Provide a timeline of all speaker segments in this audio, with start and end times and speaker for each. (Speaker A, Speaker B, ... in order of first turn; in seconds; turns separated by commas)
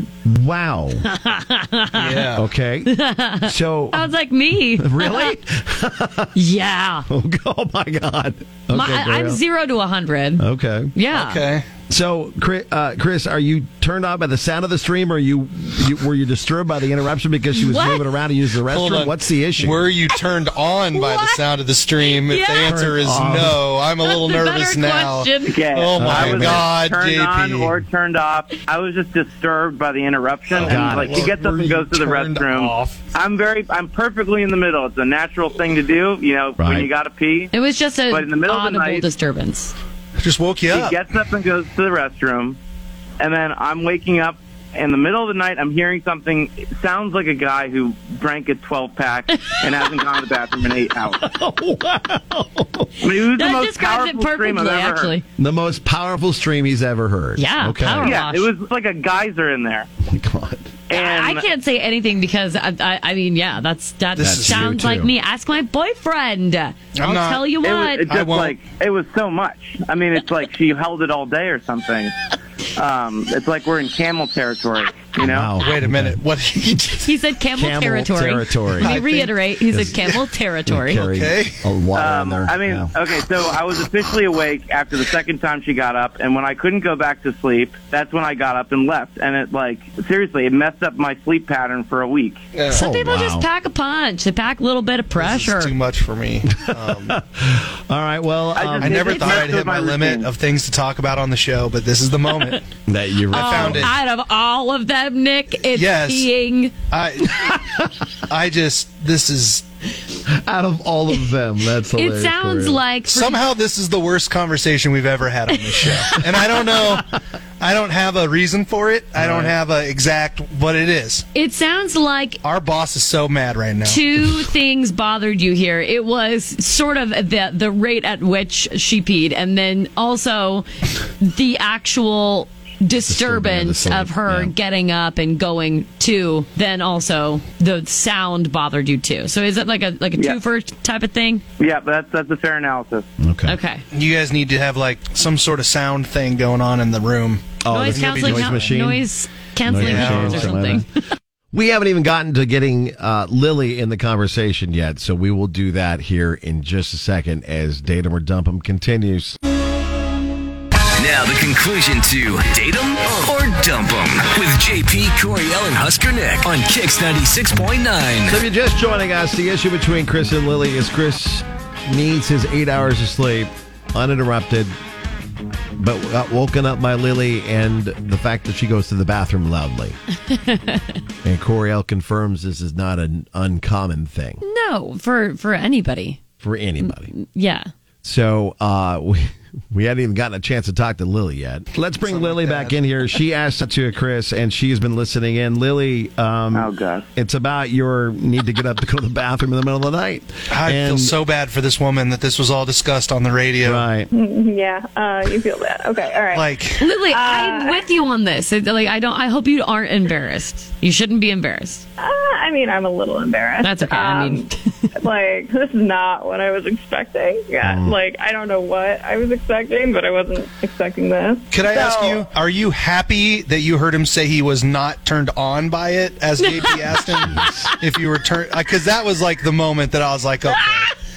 Speaker A: 0.2-1.0, Speaker B: 1.1-2.3, Speaker C: 1.9-2.5, Speaker A: 2.4-4.1, Speaker B: 2.9-5.3, Speaker A: 4.8-6.3, Speaker B: 6.3-7.1, Speaker A: 7.1-9.4, Speaker B: 8.7-11.4, Speaker A: 10.4-10.9, Speaker C: 11.1-11.7, Speaker A: 11.9-19.9, Speaker B: 17.6-18.1, Speaker C: 18.7-27.8, Speaker B: 20.9-21.4, Speaker B: 22.1-22.8, Speaker A: 22.6-23.6, Speaker B: 24.0-25.6, Speaker D: 25.5-37.5, Speaker A: 26.0-26.7, Speaker C: 30.6-33.0, Speaker A: 30.6-31.4, Speaker A: 36.6-36.9, Speaker B: 37.5-39.7, Speaker D: 38.1-39.1, Speaker C: 40.2-41.0, Speaker D: 40.7-42.6, Speaker D: 43.2-51.2, Speaker A: 51.2-53.1, Speaker D: 53.0-55.1, Speaker B: 53.3-55.2, Speaker A: 55.4-58.2, Speaker B: 57.4-58.5, Speaker D: 58.0-59.9, Speaker A: 60.1-60.7, Speaker D: 60.9-61.5, Speaker B: 60.9-68.1, Speaker C: 64.2-64.7, Speaker A: 64.2-65.1, Speaker C: 67.0-67.4, Speaker D: 67.6-72.2, Speaker C: 68.1-68.6, Speaker D: 72.8-75.5, Speaker A: 75.2-76.2, Speaker C: 75.6-77.1, Speaker B: 77.0-81.0, Speaker A: 77.5-79.0, Speaker C: 78.8-79.3, Speaker A: 79.7-82.9, Speaker C: 80.9-81.6, Speaker D: 81.9-92.4, Speaker C: 92.5-92.8, Speaker A: 92.7-93.5, Speaker B: 92.7-95.7, Speaker C: 95.2-97.2, Speaker A: 96.5-99.0, Speaker D: 98.5-100.3, Speaker C: 98.8-102.7, Speaker B: 102.3-102.6, Speaker A: 102.9-103.9, Speaker C: 103.3-103.9, Speaker B: 103.3-106.7, Speaker C: 105.7-106.3, Speaker C: 106.9-107.4, Speaker C: 108.3-109.6, Speaker A: 110.4-112.8, Speaker B: 111.9-113.4, Speaker C: 113.1-121.2, Speaker B: 115.8-116.1, Speaker A: 119.2-119.5, Speaker B: 121.3-122.4, Speaker C: 122.4-124.0, Speaker B: 123.8-130.7, Speaker B: 131.2-141.4, Speaker A: 133.1-134.5, Speaker D: 141.6-143.1, Speaker A: 143.2-143.6, Speaker B: 143.5-143.8, Speaker C: 143.9-148.7, Speaker A: 147.6-149.1, Speaker B: 147.7-150.9, Speaker A: 149.6-150.8, Speaker C: 149.8-150.6, Speaker A: 151.5-159.4, Speaker E: 161.0-168.4, Speaker A: 168.2-174.8, Speaker A: 175.8-180.0, Speaker B: 180.3-180.8, Speaker A: 181.2-184.4, Speaker B: 184.4-186.2, Speaker A: 186.4-187.1, Speaker B: 186.8-187.7, Speaker A: 188.0-201.2, Speaker C: 192.0-192.8, Speaker D: 196.5-197.1, Speaker C: 200.5-203.8, Speaker A: 203.6-204.1, Speaker F: 204.1-207.9, Speaker C: 206.3-206.9, Speaker B: 206.8-211.8, Speaker F: 212.0-214.5, Speaker B: 213.6-214.6, Speaker F: 215.0-222.3, Speaker A: 217.6-218.0, Speaker C: 221.5-230.9, Speaker B: 226.4-227.7, Speaker A: 227.3-227.6